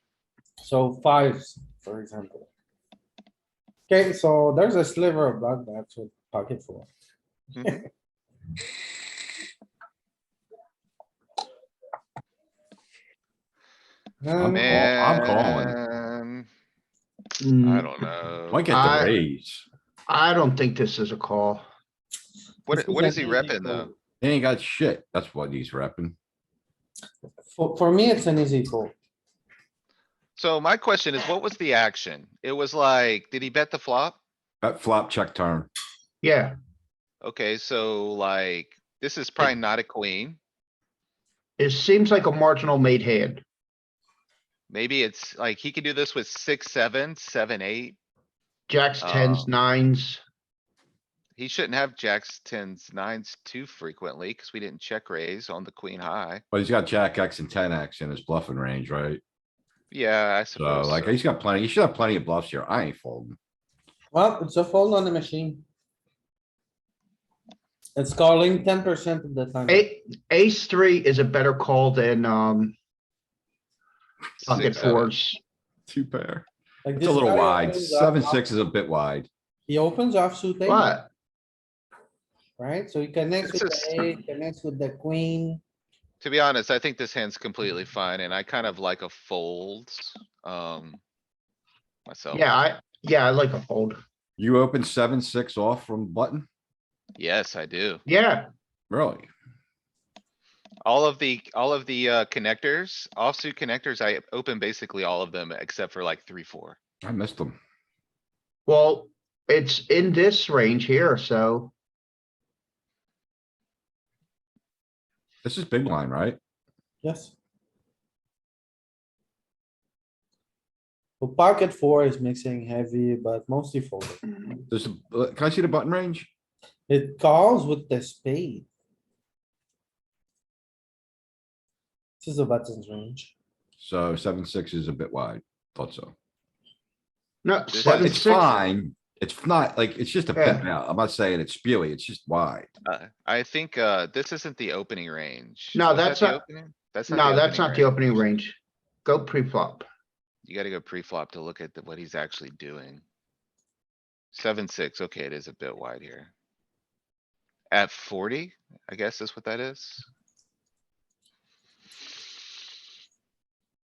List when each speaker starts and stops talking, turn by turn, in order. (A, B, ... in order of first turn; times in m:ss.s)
0:00.6-0:02.5 A
0:03.9-0:06.9 A
0:07.6-0:07.8 B
0:14.2-0:14.9 A
0:14.4-0:15.8 C
0:14.5-0:16.5 B
0:17.4-0:17.9 D
0:17.6-0:18.7 B
0:18.5-0:19.6 C
0:18.7-0:19.2 D
0:20.1-0:21.7 D
0:22.7-0:23.9 B
0:22.7-0:23.9 A
0:24.2-0:26.2 C
0:27.5-0:28.9 A
0:30.4-0:34.2 B
0:34.6-0:35.7 C
0:36.2-0:36.6 D
0:37.2-0:40.4 B
0:41.6-0:43.4 D
0:44.7-0:48.0 B
0:48.7-0:50.2 D
0:49.0-0:49.5 B
0:51.4-0:56.4 B
0:56.5-0:59.2 C
0:59.9-1:01.2 B
1:00.6-1:03.4 C
1:04.1-1:05.6 A
1:08.0-1:09.9 A
1:09.7-1:12.8 D
1:14.4-1:15.1 B
1:14.4-1:15.4 D
1:15.9-1:19.3 C
1:16.8-1:18.5 A
1:19.7-1:21.0 A
1:20.6-1:21.1 D
1:22.6-1:25.6 A
1:23.4-1:24.2 B
1:26.2-1:31.0 B
1:32.1-1:32.4 B
1:32.3-1:34.0 D
1:34.4-1:36.5 C
1:37.2-1:38.0 B
1:38.1-1:38.5 D
1:38.9-1:39.3 C
1:40.8-1:46.8 B
1:47.0-1:47.6 C
1:48.7-1:51.7 D
1:55.4-1:56.4 C
1:57.0-1:57.3 A
2:01.2-2:04.2 A
2:04.7-2:06.3 C
2:06.9-2:08.7 A
2:12.2-2:13.3 A
2:13.8-2:16.1 C
2:17.4-2:18.6 D
2:17.7-2:18.3 B
2:17.8-2:22.7 C
2:20.4-2:20.7 D
2:22.8-2:28.2 B
2:25.7-2:26.4 D
2:27.1-2:29.9 D
2:30.4-2:33.0 B
2:34.3-2:36.3 B
2:37.7-2:40.1 B